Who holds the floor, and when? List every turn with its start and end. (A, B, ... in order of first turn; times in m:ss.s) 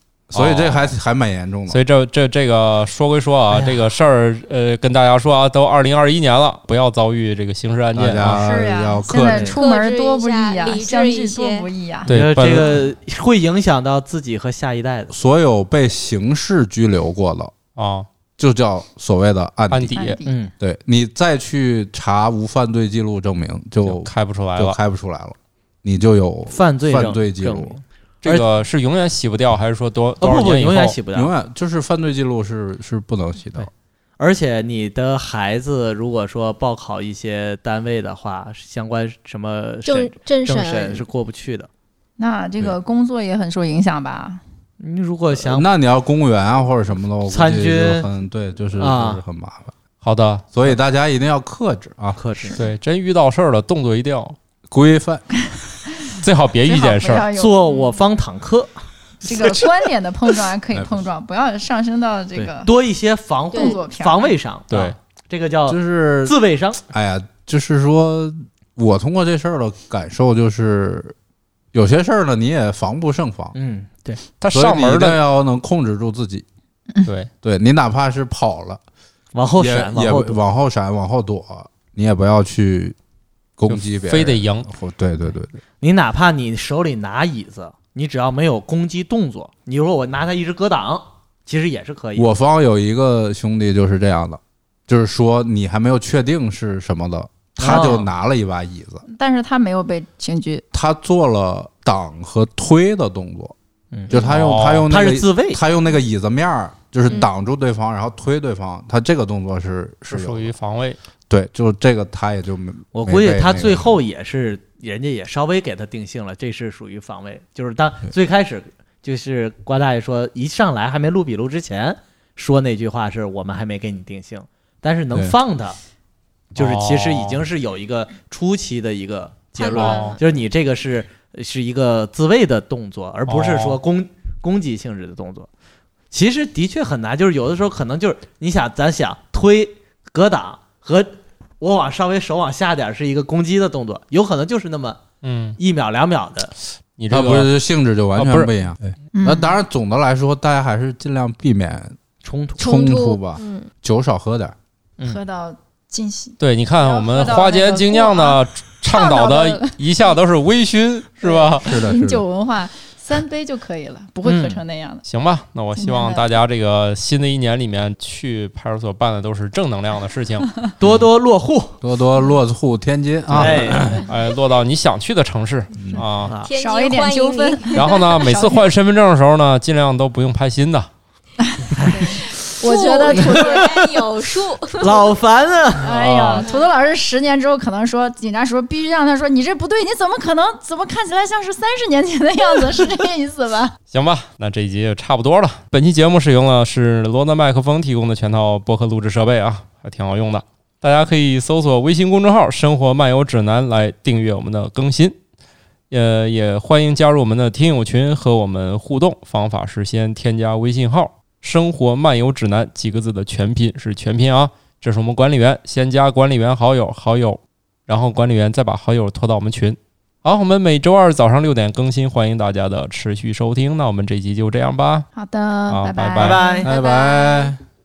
0:00.3-0:01.8 A
0:00.3-0:00.9 B
0:01.7-0:08.4 B
0:07.9-0:09.5 A
0:08.3-0:12.1 C
0:09.2-0:09.6 D
0:09.5-0:11.7 E
0:12.1-0:12.8 B
0:12.1-0:15.1 D
0:15.1-0:17.6 A
0:17.8-0:18.1 B
0:18.4-0:20.1 A
0:19.7-0:20.2 B
0:19.9-0:20.5 C
0:20.3-0:20.5 D
0:20.6-0:27.8 A
0:23.8-0:24.8 B
0:26.5-0:28.5 D
0:28.2-0:31.0 B
0:30.2-0:31.3 D
0:31.1-0:33.7 A
0:33.6-0:41.7 D
0:39.9-0:41.0 E
0:42.2-0:44.4 C
0:44.8-0:45.7 D
0:45.4-0:49.7 A
0:47.3-0:48.1 D
0:48.8-0:49.2 D
0:50.0-0:50.5 B
0:50.5-0:52.2 A
0:52.2-0:52.6 D
0:52.6-0:54.4 B
0:54.7-0:55.6 A
0:56.2-0:57.3 B
0:56.6-0:57.8 C
0:57.3-0:58.8 D
0:59.2-1:02.7 C
1:00.7-1:01.1 A
1:02.4-1:06.8 D
1:03.5-1:03.8 E
1:03.5-1:04.3 C
1:05.7-1:06.4 A
1:06.9-1:11.2 A
1:11.7-1:13.6 A
1:13.6-1:14.2 D
1:14.4-1:15.2 B
1:14.5-1:16.5 A
1:17.0-1:17.3 B
1:17.4-1:18.8 A
1:19.3-1:20.4 D
1:19.6-1:23.0 A
1:23.6-1:25.5 A
1:23.7-1:24.7 B
1:25.8-1:32.3 D
1:32.2-1:39.0 A
1:37.6-1:38.1 D
1:39.1-1:40.6 C
1:40.7-1:43.6 A
1:44.1-1:50.5 A
1:44.1-1:44.9 B
1:44.9-1:45.6 D
1:50.1-1:51.0 B
1:51.3-1:54.0 A
1:52.9-2:05.8 D
2:06.5-2:15.5 D
2:06.6-2:07.4 B
2:09.6-2:10.2 E
2:09.7-2:10.2 B
2:13.3-2:13.8 B
2:16.1-2:25.0 D
2:25.2-2:25.6 B
2:25.6-2:26.5 D
2:27.0-2:27.5 B
2:27.1-2:32.0 A
2:28.2-2:28.5 B
2:29.1-2:29.6 C
2:32.2-2:32.6 D
2:32.6-2:34.6 A
2:32.6-2:33.7 E
2:35.0-2:40.2 C
2:36.4-2:41.8 B
2:41.2-2:45.0 C
2:41.6-2:42.2 A
2:44.2-2:44.6 D
2:45.0-2:50.5 B
2:45.8-2:46.3 C
2:50.8-2:51.8 D
2:51.8-2:54.1 A
2:53.3-2:56.4 B
2:53.3-2:53.8 D
2:55.8-2:56.0 A
2:56.3-2:56.5 D
2:56.4-2:57.8 E
2:56.5-2:58.7 C
2:57.7-3:00.9 B
3:01.5-3:03.9 C
3:01.8-3:02.3 D
3:02.6-3:05.2 E
3:03.1-3:03.7 D
3:04.8-3:06.2 D
3:05.8-3:13.8 C
3:05.9-3:06.5 B
3:06.4-3:06.7 E
3:13.9-3:25.2 B
3:25.9-3:45.1 B
3:45.2-3:46.7 C
3:45.7-3:46.4 B
3:46.2-3:46.7 D
3:46.6-3:47.6 A
3:46.7-3:47.6 E